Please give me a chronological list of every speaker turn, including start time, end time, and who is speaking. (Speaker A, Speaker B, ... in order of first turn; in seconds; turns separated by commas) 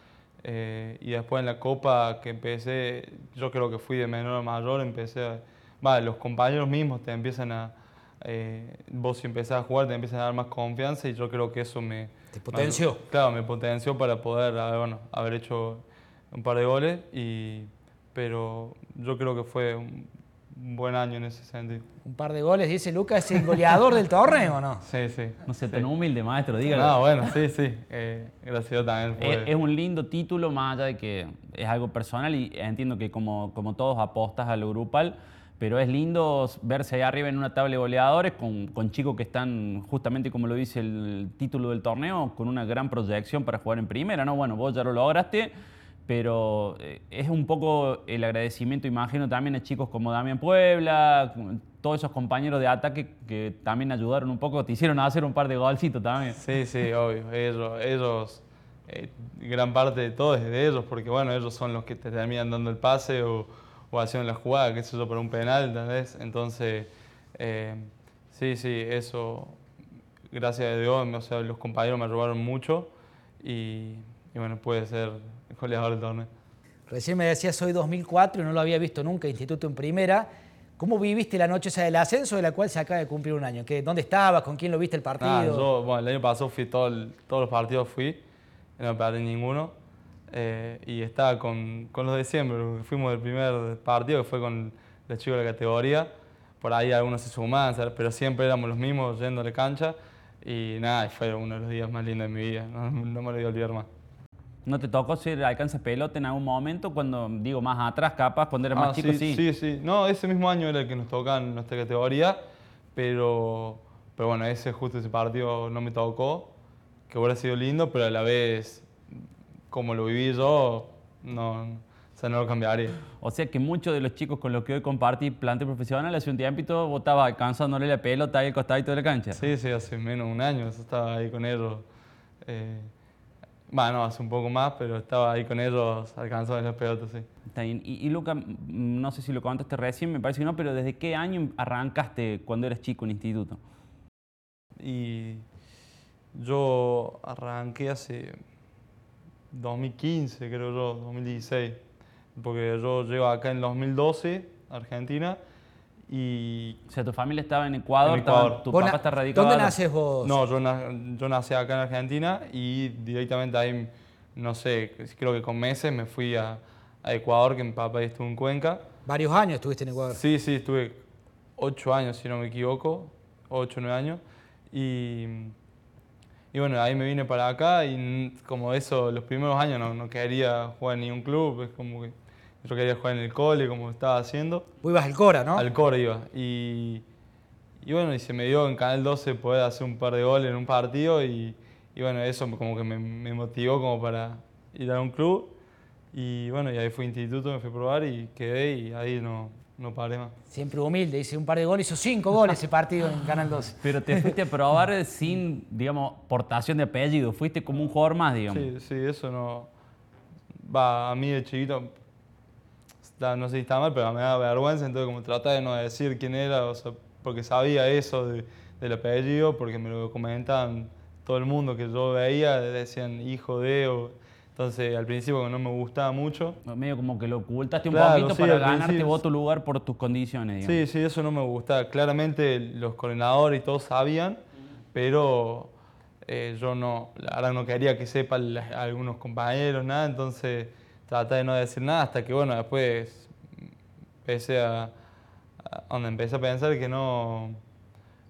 Speaker A: 0.4-21.8, Speaker B: 12.3-13.0, Speaker B: 22.0-24.8, Speaker A: 24.8-25.9, Speaker C: 25.4-27.0, Speaker A: 26.7-29.5, Speaker C: 29.2-45.5, Speaker C: 46.1-56.4, Speaker A: 56.4-69.6, Speaker A: 70.3-76.3, Speaker B: 76.9-85.7, Speaker A: 85.2-88.2, Speaker A: 88.8-89.7, Speaker A: 90.3-103.9, Speaker C: 104.6-109.4, Speaker A: 108.7-112.4, Speaker A: 112.9-116.5, Speaker A: 117.1-118.9, Speaker A: 119.7-123.0, Speaker C: 123.2-129.4, Speaker A: 129.3-131.9, Speaker A: 132.4-132.9, Speaker A: 133.7-137.3, Speaker C: 137.5-143.6, Speaker A: 144.8-145.4, Speaker A: 146.3-148.4, Speaker A: 149.5-151.8, Speaker A: 152.3-155.4, Speaker A: 156.1-156.8, Speaker C: 156.9-159.8, Speaker A: 158.0-158.7, Speaker B: 158.7-160.4, Speaker A: 160.2-168.8, Speaker B: 169.0-170.2, Speaker A: 170.1-171.0, Speaker A: 171.6-175.5, Speaker A: 176.5-184.7, Speaker B: 184.8-185.7, Speaker A: 185.5-187.0, Speaker A: 187.8-195.5, Speaker A: 196.1-200.3, Speaker B: 200.5-204.3, Speaker C: 203.8-208.7, Speaker A: 208.5-209.7, Speaker A: 210.6-211.9, Speaker A: 213.1-226.6, Speaker C: 226.7-230.8, Speaker A: 227.9-229.2, Speaker A: 230.6-234.4, Speaker A: 234.9-235.7, Speaker A: 236.2-243.3, Speaker A: 244.2-244.9, Speaker A: 245.6-247.6